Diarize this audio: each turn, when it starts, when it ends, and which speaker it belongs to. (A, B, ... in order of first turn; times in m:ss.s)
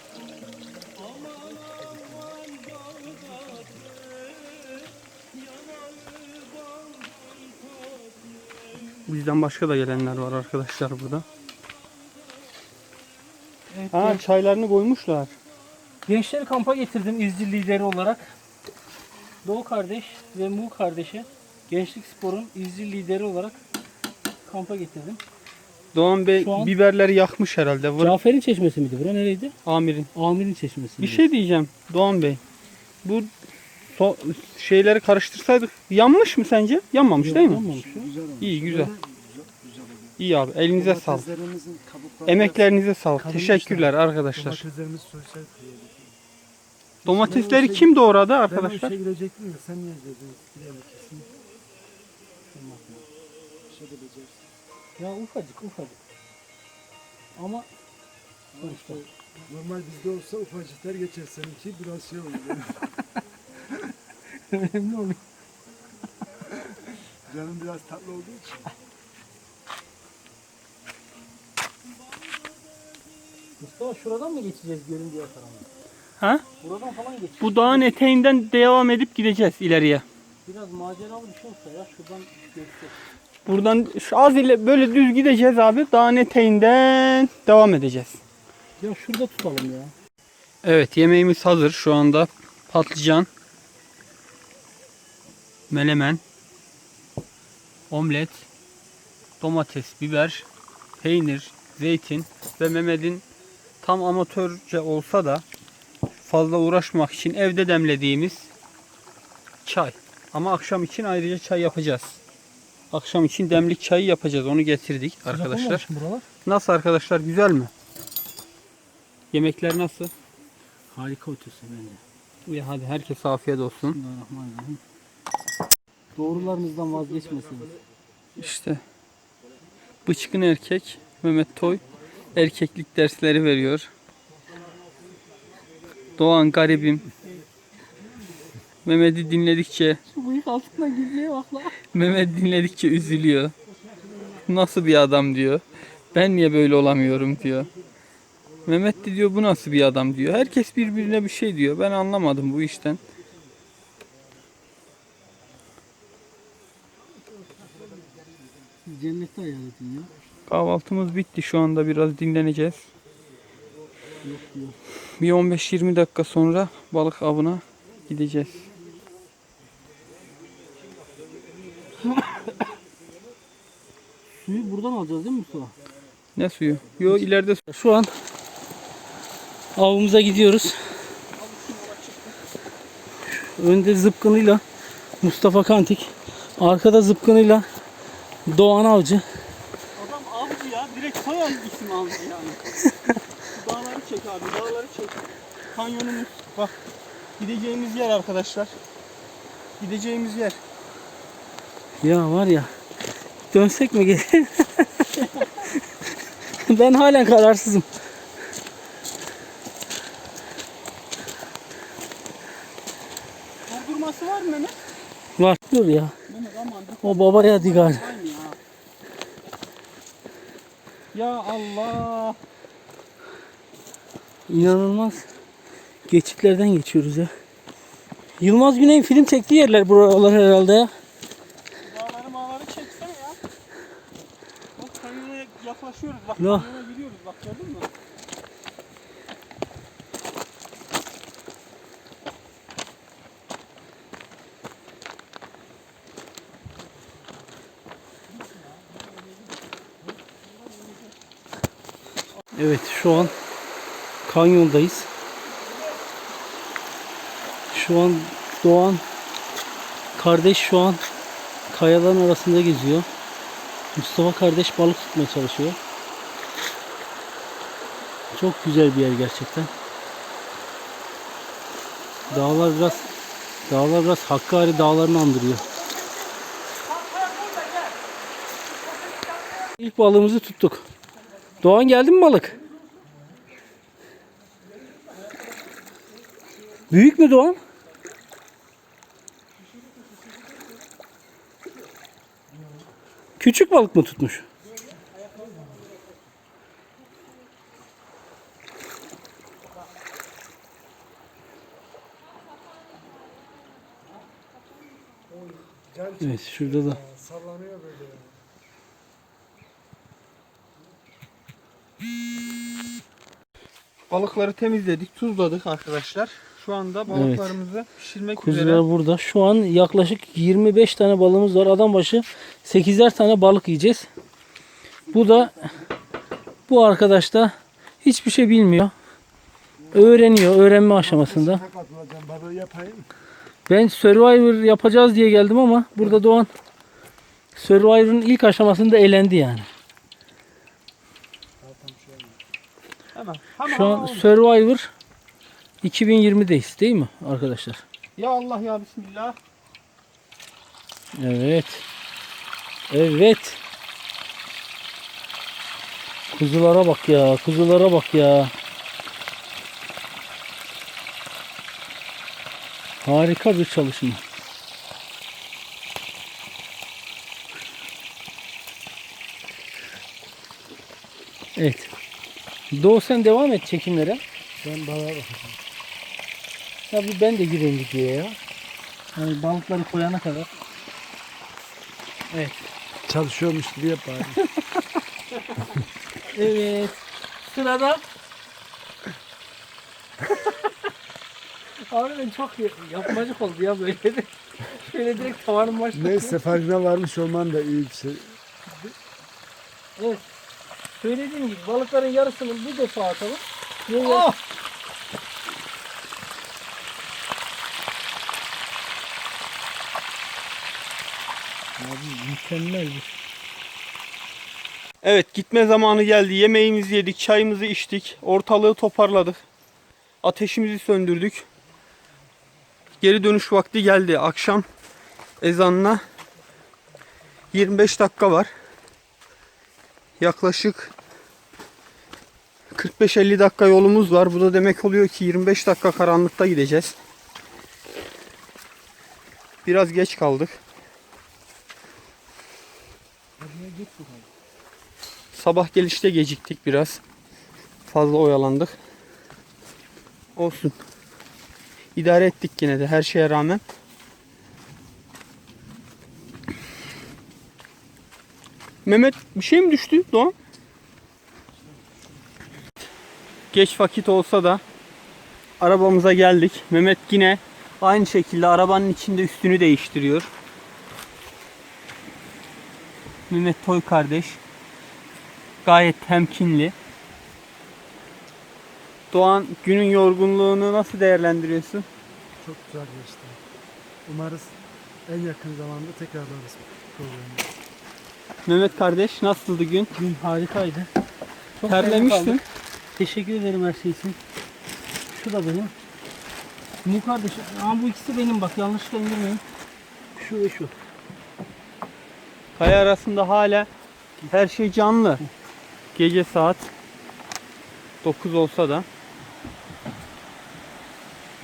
0:01.2-0:01.6 A
0:09.1-0:11.2 B
0:13.7-0:14.2 A
0:13.9-0:15.3 B
0:16.1-0:18.3 A
0:19.4-0:23.6 A
0:24.5-0:25.2 A
0:25.9-0:28.2 B
0:26.4-0:26.7 A
0:28.0-0:29.5 A
0:29.6-0:30.1 B
0:30.2-0:31.2 A
0:31.0-0:32.4 B
0:33.0-0:33.3 B
0:33.9-0:37.6 B
0:37.2-0:38.1 A
0:37.3-0:40.2 C
0:38.4-0:38.9 B
0:40.2-0:41.3 B
0:40.8-0:42.6 C
0:42.3-0:44.6 B
0:43.2-0:46.2 C
0:47.0-0:47.9 C
0:47.0-0:49.0 B
0:48.4-0:51.3 C
0:52.5-0:53.1 A
0:53.7-0:54.5 C
0:55.0-0:56.0 A
0:57.4-0:57.7 A
0:58.5-1:02.9 C
0:58.6-0:59.0 A
1:04.3-1:05.2 A
1:07.3-1:08.7 C
1:13.6-1:15.7 A
1:16.6-1:17.9 A
1:17.4-1:20.0 B
1:20.4-1:23.0 A
1:23.5-1:28.2 B
1:28.8-1:29.9 A
1:30.6-1:33.3 B
1:35.7-1:36.2 B
1:37.9-1:38.5 B
1:39.4-1:40.5 B
1:41.0-1:43.2 B
1:43.8-1:45.4 B
1:46.2-1:48.5 B
1:49.6-1:52.2 B
1:52.9-1:55.8 B
1:55.3-1:56.3 A
1:56.4-1:57.7 B
1:59.3-2:00.1 B
2:00.9-2:02.0 A
2:02.5-2:04.0 B
2:03.9-2:04.8 A
2:06.2-2:07.8 A
2:08.4-2:08.8 B
2:10.1-2:11.8 B
2:12.3-2:13.9 B
2:16.2-2:17.1 B
2:18.8-2:20.0 B
2:20.1-2:21.8 A
2:21.9-2:23.5 B
2:24.5-2:27.7 B
2:28.6-2:33.0 B
2:37.5-2:38.5 C
2:38.8-2:40.1 A
2:40.5-2:42.9 B
2:44.2-2:44.8 A
2:45.2-2:48.7 B
2:52.1-2:52.4 A
2:54.4-2:55.8 A
2:56.4-2:57.6 B
2:57.1-2:58.1 A
2:59.8-3:00.8 A
3:01.4-3:02.4 B
3:03.3-3:04.6 A
3:05.2-3:07.7 A
3:08.5-3:09.2 A
3:10.0-3:12.6 B
3:13.4-3:16.8 B
3:17.4-3:18.8 B
3:19.8-3:20.6 B
3:22.0-3:22.7 A
3:23.5-3:25.1 A
3:25.2-3:25.5 B
3:26.6-3:27.9 A
3:33.7-3:34.8 B
3:35.4-3:36.2 A
3:36.3-3:38.6 B
3:37.0-3:38.1 A
3:41.1-3:42.4 B
3:44.5-3:45.3 A
3:46.1-3:47.3 A
3:48.4-3:50.9 A
3:51.8-3:53.4 B
3:54.8-3:57.9 B
3:56.4-3:56.7 A
4:12.6-4:13.3 A
4:14.2-4:15.1 A
4:17.7-4:19.0 A
4:20.2-4:21.0 A
4:21.7-4:23.1 A
4:23.9-4:25.8 A
4:28.3-4:29.7 A
4:32.3-4:33.1 A
4:33.7-4:35.7 A
4:39.8-4:40.9 A
4:41.6-4:42.6 A
4:46.9-4:47.6 A
4:53.4-4:54.5 A
5:05.3-5:08.4 C
5:06.2-5:07.0 A
5:14.1-5:18.8 B
5:17.1-5:17.6 A
5:18.4-5:24.1 A
5:25.1-5:25.7 A
5:25.1-5:25.7 C
5:26.7-5:28.9 A
5:29.8-5:30.4 C
5:29.9-5:31.6 A
5:31.0-5:33.1 C
5:33.7-5:36.5 A
5:37.6-5:39.7 A
5:41.6-5:42.4 C
5:43.2-5:44.4 B
5:43.6-5:44.9 A
5:45.8-5:47.8 A
5:48.2-5:49.4 B
5:51.2-5:51.8 A
5:52.9-5:53.6 A
5:56.3-5:58.5 A
6:03.0-6:04.2 A
6:11.6-6:11.9 A
6:12.7-6:14.2 A
6:14.6-6:15.6 C
6:16.9-6:18.4 A
6:19.2-6:20.5 A
6:22.3-6:22.6 A
6:23.0-6:24.4 C
6:26.3-6:28.0 A
6:31.9-6:36.6 A
6:35.9-6:38.4 C
6:40.0-6:40.3 A
6:41.0-6:44.3 A
6:51.8-6:53.1 A
6:55.0-6:59.4 B
7:00.2-7:01.5 B
7:03.0-7:04.7 B
7:05.4-7:06.0 B
7:07.5-7:08.5 B
7:10.2-7:10.9 B
7:12.8-7:17.0 B
7:19.6-7:20.6 B
7:23.4-7:24.3 C
7:25.3-7:27.0 B
7:27.9-7:28.8 B
7:30.4-7:30.8 B
7:32.0-7:33.6 B
7:38.9-7:40.3 B
7:43.5-7:44.6 B
7:45.6-7:50.3 B
7:53.3-7:54.4 B
7:55.6-7:56.7 B
7:59.1-8:01.9 B
8:02.4-8:03.4 C
8:04.0-8:07.5 C
8:08.5-8:09.9 B
8:10.0-8:10.9 A
8:11.6-8:12.4 A
8:11.6-8:12.4 B
8:13.0-8:14.2 A
8:15.1-8:15.7 A
8:16.8-8:19.4 A
8:20.2-8:20.7 A
8:22.6-8:23.7 B
8:24.3-8:25.2 B
8:26.0-8:26.7 B
8:28.0-8:28.9 B